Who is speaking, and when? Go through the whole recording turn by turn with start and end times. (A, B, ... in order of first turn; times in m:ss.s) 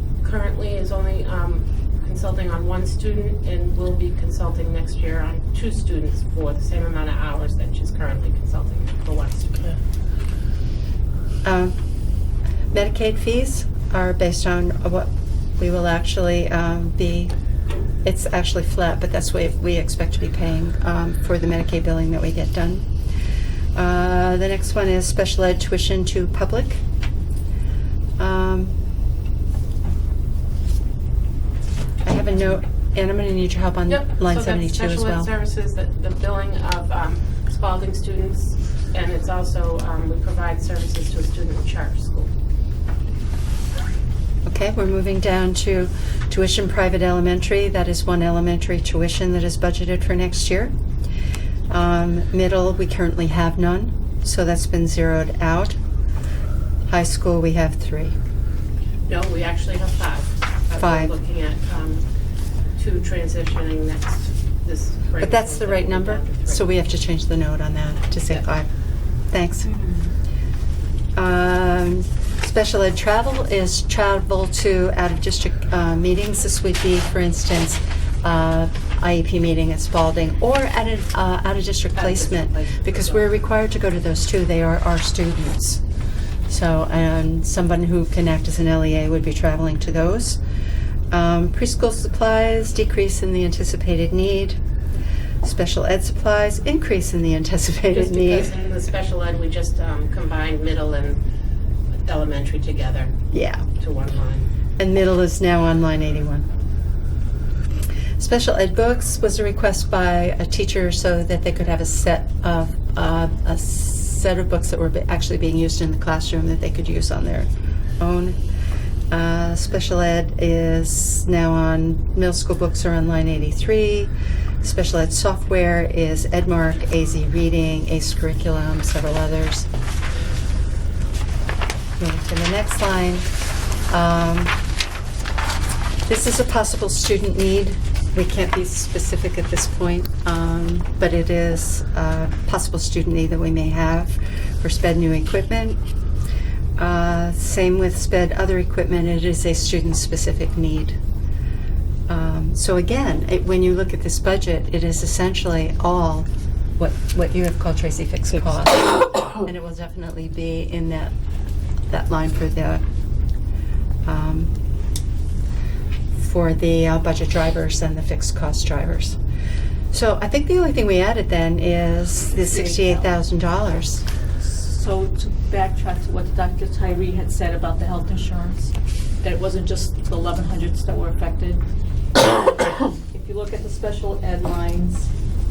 0:00.2-0:09.7 A
0:11.4-0:11.8 B
0:12.7-0:17.3 B
0:18.0-0:22.9 B
0:23.7-0:26.8 B
0:28.2-0:28.8 B
0:32.0-0:35.3 B
0:33.9-0:42.3 A
0:44.4-0:50.7 B
0:51.7-0:55.8 B
0:56.9-0:58.2 B
0:59.1-1:02.1 A
1:00.8-1:01.1 B
1:02.8-1:06.7 A
1:05.2-1:08.7 B
1:09.3-1:09.7 B
1:11.2-1:25.8 B
1:22.0-1:23.3 A
1:26.5-1:30.4 B
1:31.1-1:34.6 B
1:35.4-1:38.5 B
1:37.9-1:41.2 A
1:42.0-1:43.2 A
1:43.3-1:43.7 B
1:43.8-1:44.5 A
1:44.8-1:46.5 B
1:48.2-1:58.4 B
1:59.1-2:09.7 B
2:12.0-2:13.3 B
2:13.9-2:14.5 B
2:16.1-2:25.8 B
2:26.8-2:31.0 B
2:32.1-2:41.1 B
2:41.9-2:42.8 B
2:44.0-2:44.5 B
2:46.1-2:49.2 B
2:49.9-2:54.0 B
2:52.4-2:53.1 C
2:54.4-3:01.6 C
3:03.1-3:05.1 C